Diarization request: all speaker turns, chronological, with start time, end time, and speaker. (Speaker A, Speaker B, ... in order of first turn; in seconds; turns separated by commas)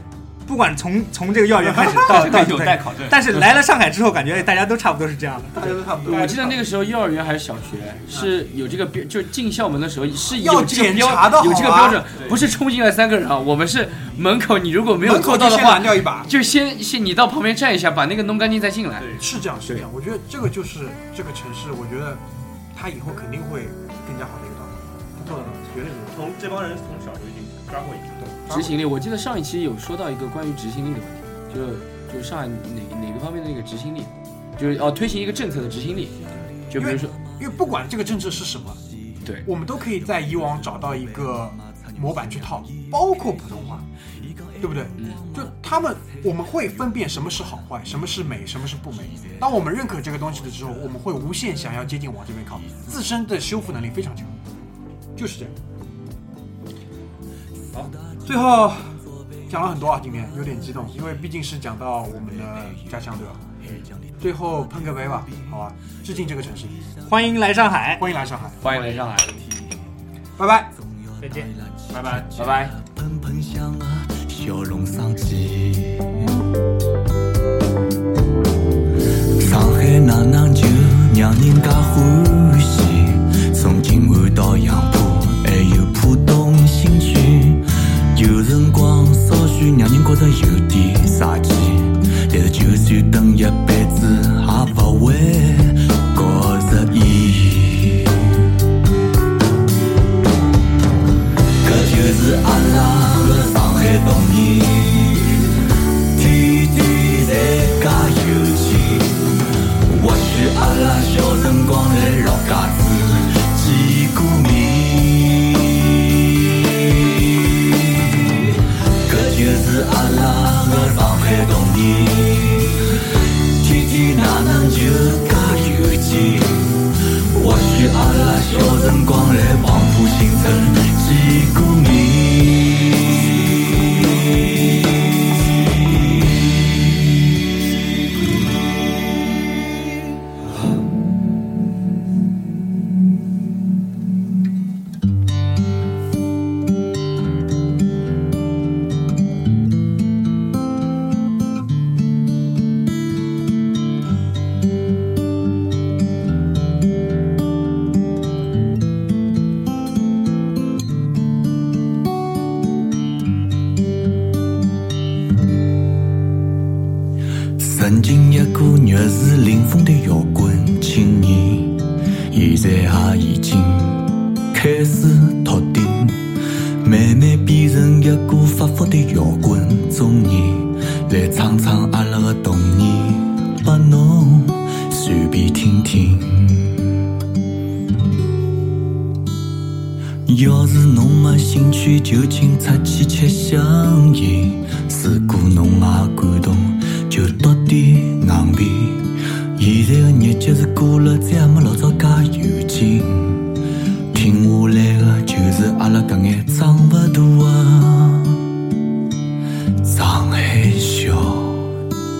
Speaker A: 0.5-5.8, Speaker B: 1.6-2.9, Speaker C: 1.8-3.5, Speaker B: 5.5-6.6, Speaker C: 6.0-19.9, Speaker B: 10.2-12.1, Speaker B: 15.0-16.3, Speaker D: 19.0-19.2, Speaker B: 19.1-26.1, Speaker D: 26.1-28.4, Speaker B: 28.2-28.8, Speaker C: 28.5-37.1, Speaker B: 36.8-38.8, Speaker B: 39.5-43.9, Speaker B: 44.6-54.4, Speaker C: 45.0-45.3, Speaker B: 55.2-55.5, Speaker B: 58.2-63.4, Speaker B: 64.2-66.8, Speaker A: 67.0-68.1, Speaker B: 68.0-68.6, Speaker C: 68.6-69.4, Speaker B: 70.4-70.7, Speaker A: 71.2-71.5, Speaker E: 71.3-76.4, Speaker D: 71.9-72.3, Speaker C: 72.3-72.7, Speaker E: 79.3-98.5, Speaker E: 101.6-134.2, Speaker E: 167.6-187.0, Speaker E: 190.3-203.6, Speaker E: 204.1-208.4, Speaker E: 209.8-211.7